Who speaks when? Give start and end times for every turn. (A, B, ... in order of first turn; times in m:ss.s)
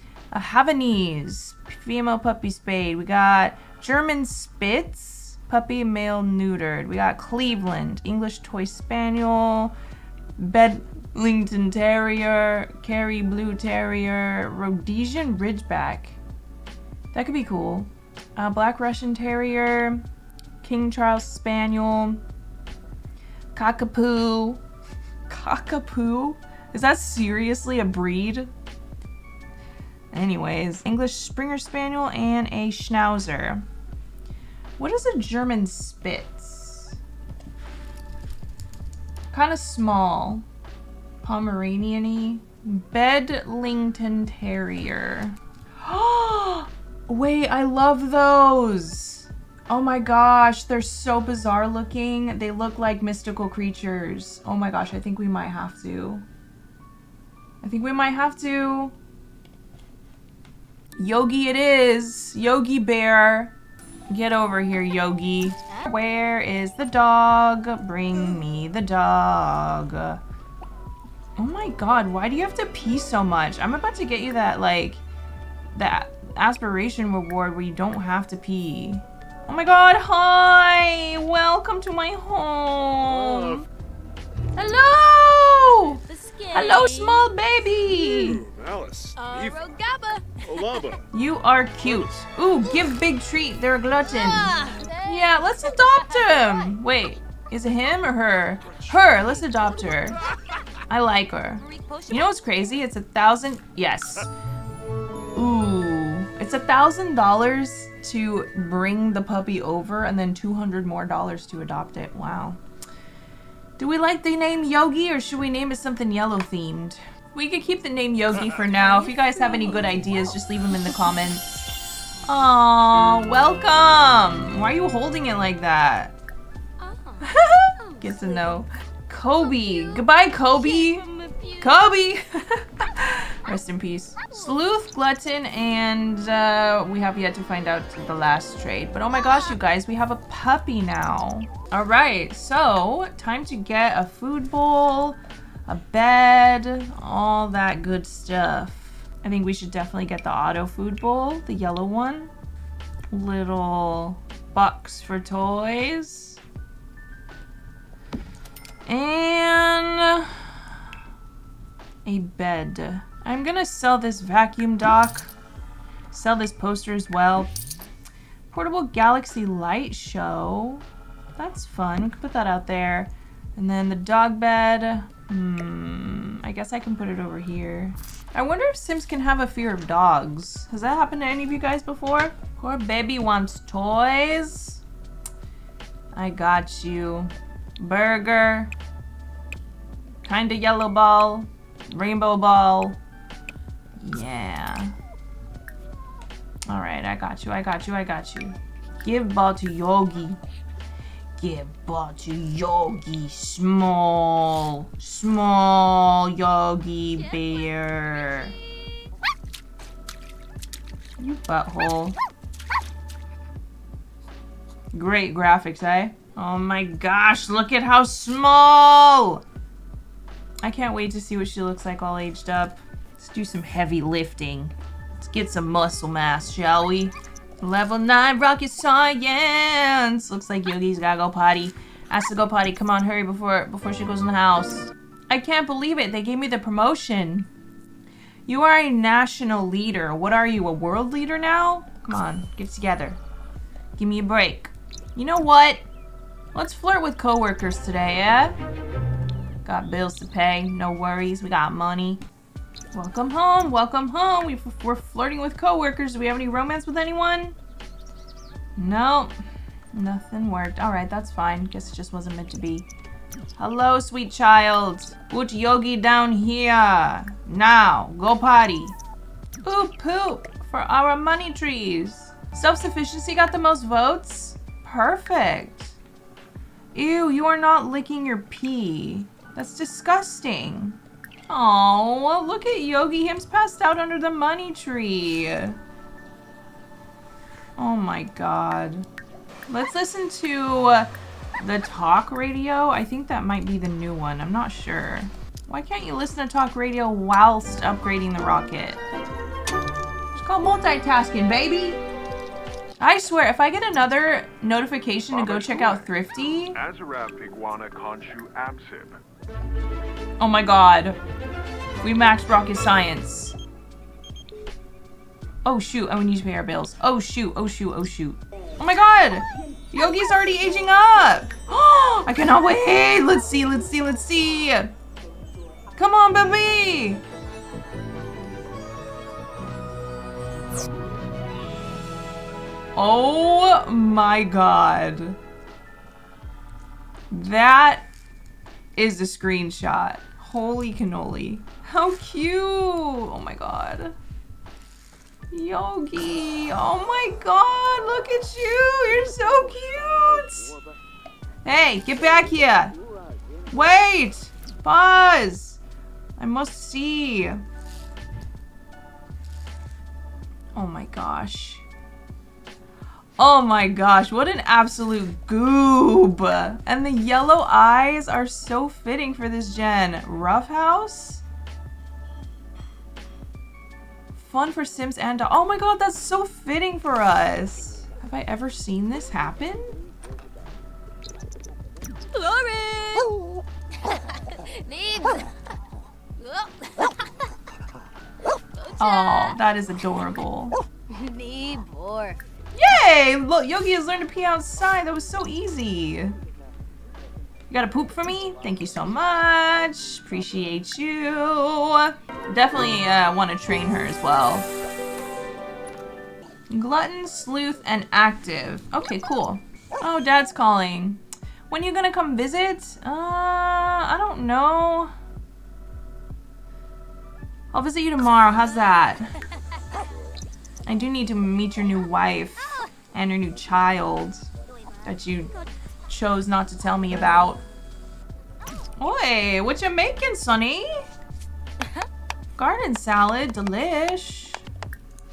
0:00.3-0:09.8 A
0:10.4-0:16.2 A
0:17.1-0:20.0 A
0:20.6-0:22.2 A
0:23.5-0:24.6 A
0:25.3-0:28.5 A
0:30.1-0:33.6 A
0:34.8-0:37.0 A
0:39.3-0:40.5 A
0:41.2-0:56.2 A
0:57.6-0:58.9 A
1:01.0-1:03.5 A
1:04.1-1:10.2 A
1:11.4-1:15.0 A
1:15.7-1:23.7 A
1:23.1-1:23.6 B
1:24.6-1:26.0 A
1:26.0-1:27.3 C
1:26.5-1:28.4 A
1:27.9-1:29.6 B
1:29.2-1:30.9 C
1:30.4-1:31.0 B
1:31.1-1:40.2 A
1:34.1-1:36.6 C
1:40.9-1:44.3 A
1:41.6-1:42.6 C
1:45.4-1:52.6 A
1:53.8-2:01.4 A
1:58.8-1:59.3 C
2:02.2-2:06.2 A
2:06.8-2:08.6 C
2:07.2-2:11.0 A
2:09.4-2:11.9 C
2:11.6-2:32.3 A
2:19.2-2:19.5 C
2:33.1-2:36.4 A
2:38.9-2:40.5 A
2:42.0-2:45.3 A
2:46.1-2:47.5 A
2:48.5-2:50.8 A
2:51.4-3:04.8 A
3:06.1-3:08.7 A
3:10.2-3:13.0 A
3:14.0-3:15.0 A
3:16.7-3:20.4 A
3:21.4-3:28.6 A
3:27.1-3:29.1 C
3:31.2-3:32.2 A
3:34.9-3:39.4 A
3:40.6-3:57.5 A
3:58.5-4:03.2 A
4:04.0-4:05.8 A
4:06.5-4:08.6 A
4:09.6-4:12.2 A
4:12.9-4:17.6 A
4:18.8-4:19.4 A
4:19.9-4:22.9 A
4:23.6-4:29.0 A
4:29.6-4:36.0 A
4:36.9-4:45.8 A
4:47.8-4:49.1 A
4:49.7-4:59.0 A
5:00.3-5:02.0 A
5:03.0-5:06.8 A
5:05.3-5:09.2 B
5:10.4-5:11.2 A
5:12.0-5:13.6 A
5:15.6-5:24.9 A
5:26.0-5:27.2 A
5:33.0-5:35.4 A
5:37.3-5:38.1 A
5:39.0-5:44.2 A
5:45.5-5:50.8 A
5:51.6-5:53.0 A
5:53.7-5:55.8 A
5:56.4-5:57.6 A
6:00.8-6:01.8 A
6:03.4-6:11.4 A
6:14.4-6:20.0 A
6:22.3-6:23.4 C
6:24.0-6:25.5 C
6:26.4-6:27.5 C
6:28.7-6:29.6 C
6:29.0-6:30.8 A
6:31.1-6:32.4 C
6:32.7-6:36.4 A
6:37.7-6:44.7 A
6:46.7-6:55.1 A
6:57.7-6:59.3 A
7:00.9-7:04.5 A
7:05.0-7:05.5 A
7:06.1-7:07.6 A
7:09.0-7:11.1 A
7:12.6-7:14.6 A